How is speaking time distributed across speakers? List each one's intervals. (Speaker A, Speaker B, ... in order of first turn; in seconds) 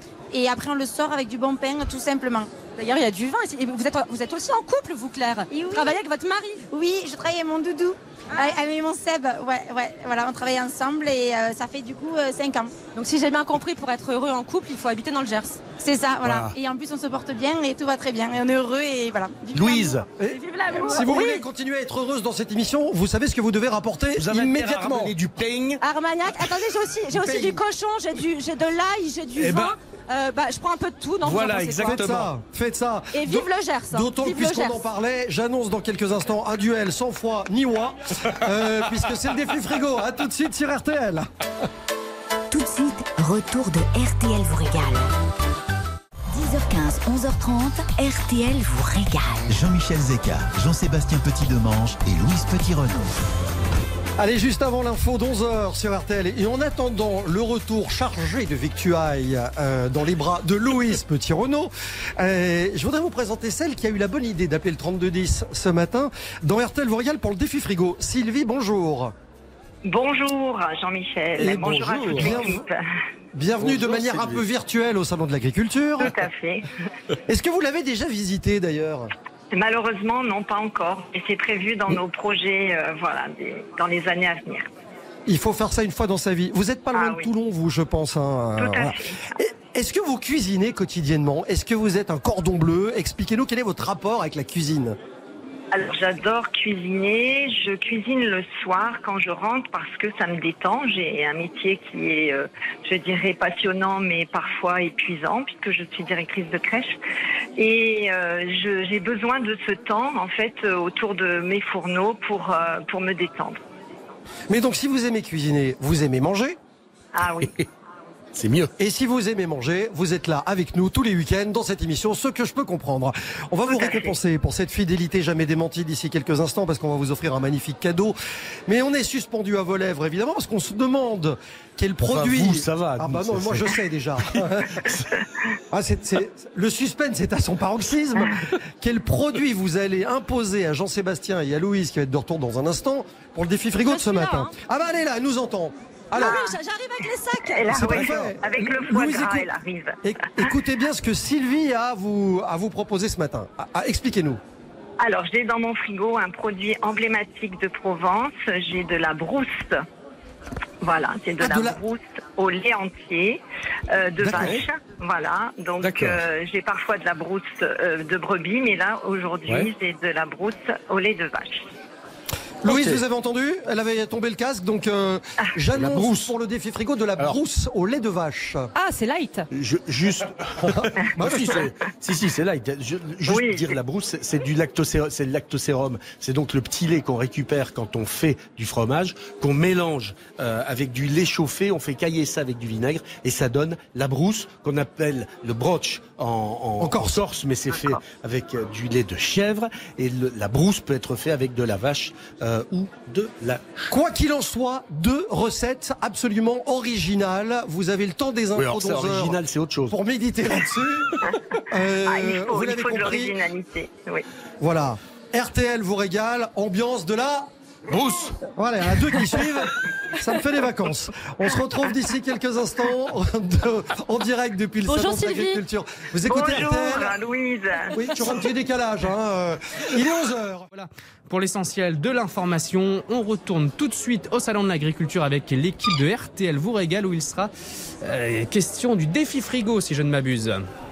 Speaker A: 0.3-2.5, 5.5-6.0, 6.7-12.7, 15.8-19.9, 20.7-21.2
Speaker B: 2.8-6.6, 12.9-15.6, 20.3-21.4, 25.8-32.0, 33.1-34.9, 143.9-144.5, 146.2-148.1, 178.8-179.5, 224.9-225.6
Speaker C: 16.2-16.5, 19.5-20.1, 24.2-25.8, 29.4-29.8, 31.2-32.3, 72.0-72.4, 73.6-74.4, 117.4-117.7, 118.3-118.7, 132.1-133.7, 134.3-135.1, 164.2-164.7, 165.8-166.2, 172.7-173.0, 175.7-176.3, 179.5-203.9, 208.6-210.0, 217.9-218.4
Speaker D: 20.2-25.1, 27.2-27.6, 31.8-41.3, 54.2-69.1, 71.4-72.7, 73.3-76.2, 77.3-79.1, 85.3-95.0, 114.5-116.6, 118.8-128.2, 128.7-134.9, 135.7-146.4, 147.7-149.5, 150.0-154.4, 161.4-161.8, 164.3-164.6, 172.6-178.7, 180.6-181.6, 196.8-197.2, 203.9-209.4, 209.9-211.2, 211.7-213.4, 214.6-217.5, 218.5-227.2, 227.9-230.7
Speaker E: 42.5-45.1, 46.3-49.5
Speaker F: 49.5-53.2
Speaker G: 69.8-72.8, 76.0-76.7, 79.5-84.7, 86.9-87.3, 88.6-89.1, 95.7-107.0, 107.6-113.6, 117.2-117.5, 123.7-124.2, 147.6-150.5, 155.0-159.8, 160.8-171.6, 183.2-183.8, 212.0-214.2, 226.2-228.0
Speaker H: 230.7-237.5, 238.0-240.7